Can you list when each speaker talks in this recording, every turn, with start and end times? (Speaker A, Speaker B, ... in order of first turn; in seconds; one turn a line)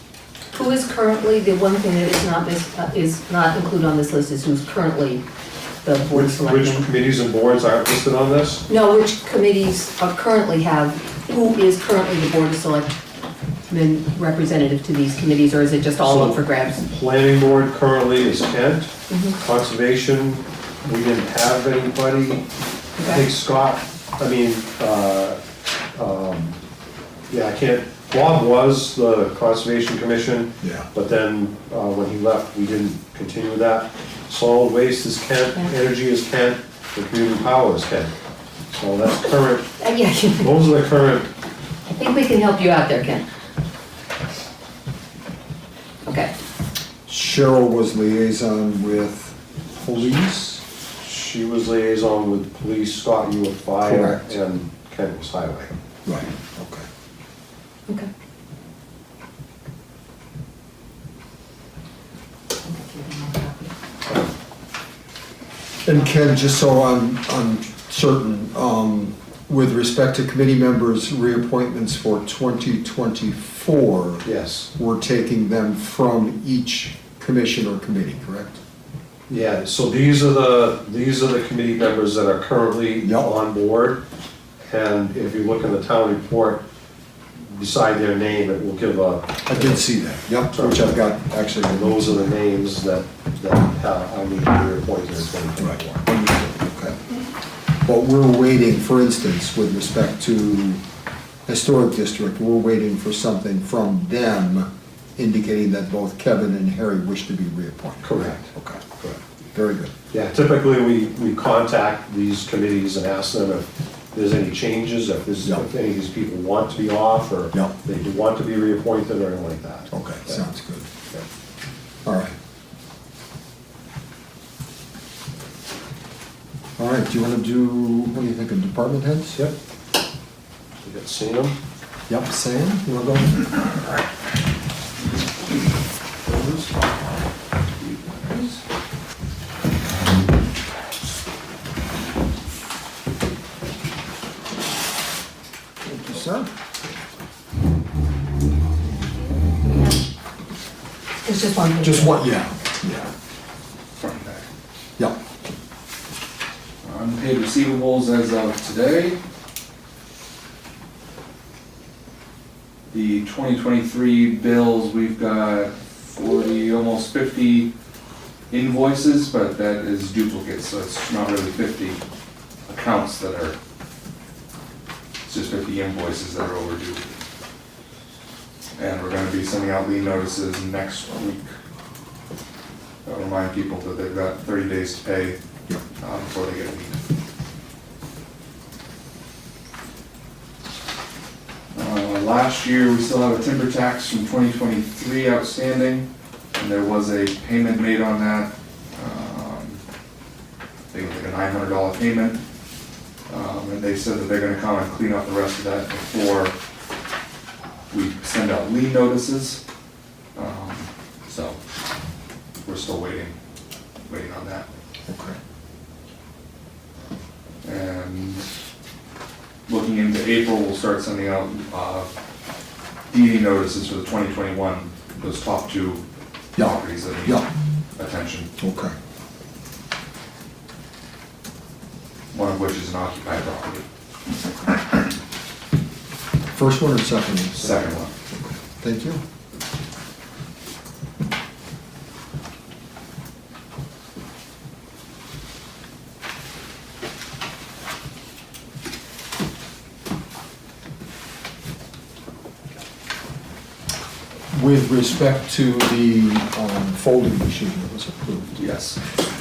Speaker A: 0.5-5.2
Speaker A: 5.8-6.9
Speaker B: 6.1-8.7
Speaker A: 8.7-12.9
Speaker A: 13.7-16.8
Speaker B: 16.0-22.5
Speaker A: 19.1-19.4
Speaker A: 23.0-23.2
Speaker B: 23.0-25.4
Speaker B: 25.9-26.6
Speaker B: 27.3-38.1
Speaker C: 30.6-30.9
Speaker B: 38.7-39.7
Speaker A: 39.8-40.5
Speaker B: 40.4-41.3
Speaker A: 41.9-43.3
Speaker A: 46.0-46.3
Speaker C: 47.1-50.6
Speaker B: 51.0-55.7
Speaker C: 53.8-54.3
Speaker C: 56.1-56.9
Speaker A: 62.6-63.7
Speaker B: 64.1-64.3
Speaker C: 65.8-78.6
Speaker B: 74.2-74.7
Speaker B: 79.3-84.0
Speaker C: 83.0-83.3
Speaker B: 84.6-86.6
Speaker B: 87.4-89.8
Speaker C: 89.5-92.3
Speaker B: 90.5-91.0
Speaker B: 91.7-96.0
Speaker C: 95.6-97.0
Speaker C: 97.8-100.8
Speaker C: 101.5-109.9
Speaker B: 108.0-108.5
Speaker B: 110.1-120.4
Speaker C: 119.9-120.9
Speaker C: 122.0-122.3
Speaker C: 126.8-129.4
Speaker B: 130.8-131.6
Speaker C: 132.1-133.9
Speaker D: 136.3-137.1
Speaker D: 137.8-138.6
Speaker C: 145.8-146.5
Speaker A: 151.2-152.3
Speaker C: 151.8-153.1
Speaker D: 154.0-154.5
Speaker D: 156.8-159.2
Speaker D: 162.9-167.7
Speaker D: 168.5-172.0
Speaker D: 172.7-173.6
Speaker D: 175.3-177.1
Speaker D: 178.8-181.5
Speaker D: 183.1-185.4
Speaker D: 186.0-187.0
Speaker D: 191.8-199.8
Speaker D: 200.9-202.4
Speaker D: 203.3-206.6
Speaker D: 207.9-209.6
Speaker D: 210.3-211.6
Speaker D: 212.7-213.3
Speaker D: 214.1-214.7
Speaker C: 215.1-215.4
Speaker D: 217.6-218.5
Speaker D: 219.7-222.1
Speaker D: 223.1-226.0
Speaker C: 226.6-227.5
Speaker D: 226.6-227.4
Speaker D: 228.0-228.5
Speaker C: 228.6-228.9
Speaker D: 232.3-233.8
Speaker C: 236.5-239.2
Speaker D: 237.5-238.1
Speaker C: 254.5-258.6
Speaker D: 258.6-259.0